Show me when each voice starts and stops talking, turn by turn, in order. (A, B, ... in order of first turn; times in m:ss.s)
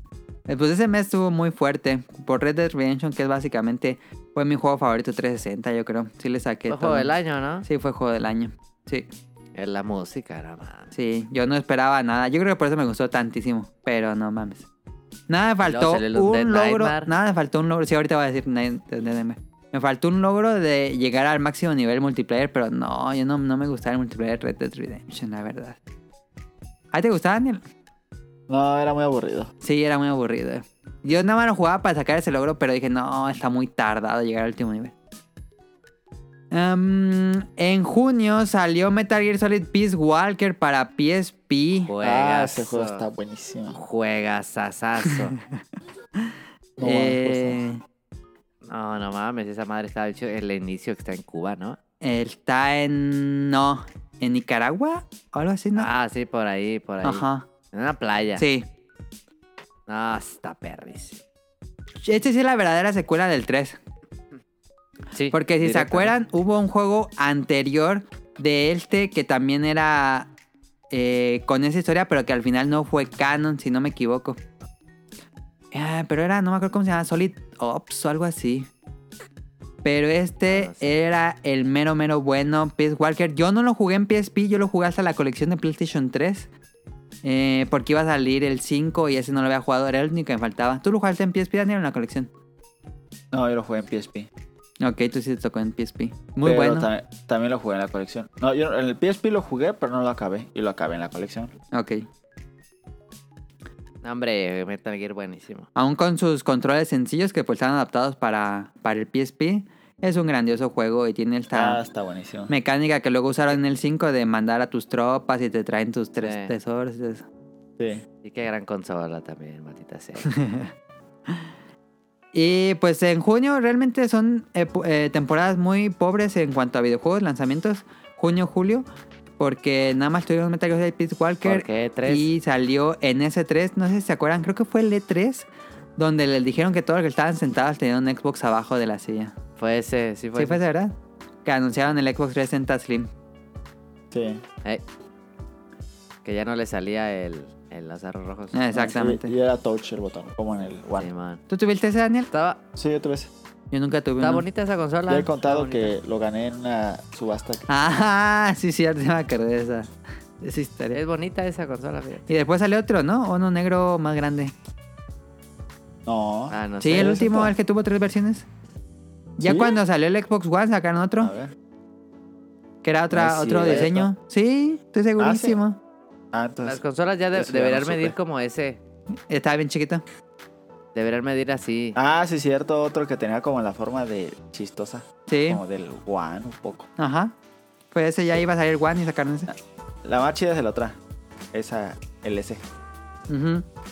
0:00.5-0:07.1 A
0:06.7-0:07.7 B
0:07.6-0:09.1 A
0:09.6-0:10.9 B
0:10.9-0:14.7 A
0:15.3-0:25.8 A
0:15.6-0:17.1 B
0:26.9-0:27.6 A
0:28.5-0:29.5 C
0:29.6-0:34.9 A
0:36.5-0:41.9 A
0:41.9-0:43.0 B
0:42.0-0:43.8 C
0:43.8-0:45.4 B
0:46.8-0:47.6 C
0:46.8-0:47.8 A
0:48.6-0:51.8 B
0:52.0-0:55.9 A
0:55.8-0:58.4 B
0:57.0-0:57.5 A
0:58.4-0:58.6 A
0:59.9-1:01.2 B
1:02.0-1:03.8 A
1:05.1-1:06.1 B
1:05.3-1:10.3 A
1:10.9-1:14.4 A
1:15.7-1:18.7 A
1:19.8-1:26.5 A
1:20.4-1:20.9 B
1:27.2-1:32.3 A
1:33.3-1:34.3 C
1:34.8-1:36.9 A
1:36.4-1:41.5 C
1:41.7-1:42.0 A
1:44.0-1:45.7 B
1:45.8-1:51.8 A
1:51.5-1:52.5 C
1:52.5-1:57.2 A
1:56.2-1:56.5 B
1:57.8-1:58.0 C
1:58.2-2:00.3 B
2:00.3-2:00.7 A
2:02.3-2:08.9 A
2:09.4-2:19.3 A
2:11.4-2:12.3 B
2:19.6-2:20.6 B
2:20.4-2:20.9 A
2:21.4-2:23.1 A
2:24.1-2:24.4 C
2:26.2-2:28.6 B
2:28.5-2:29.3 A
2:28.7-2:31.1 C
2:31.0-2:31.4 B
2:31.5-2:32.3 A
2:32.3-2:32.6 B
2:32.8-2:33.3 C
2:33.7-2:34.4 A
2:34.2-2:36.0 B
2:35.1-2:37.7 C
2:37.7-2:41.0 A
2:40.9-2:42.3 B
2:42.3-2:44.5 A
2:46.1-2:47.5 C
2:46.5-2:47.2 B
2:46.8-2:48.5 A
2:49.4-2:51.3 A
2:49.4-2:49.8 C
2:51.2-2:51.5 C
2:52.8-2:55.8 A
2:53.1-2:54.1 C
2:55.2-2:55.6 C
2:56.3-2:56.8 C
2:56.6-2:58.8 B
2:57.3-2:58.2 C
2:59.3-3:00.0 A
3:01.0-3:02.0 B
3:02.0-3:06.9 C
3:05.3-3:05.6 A
3:07.0-3:07.3 A
3:07.9-3:09.5 A
3:10.0-3:11.0 C
3:11.5-3:12.6 C
3:13.3-3:13.6 A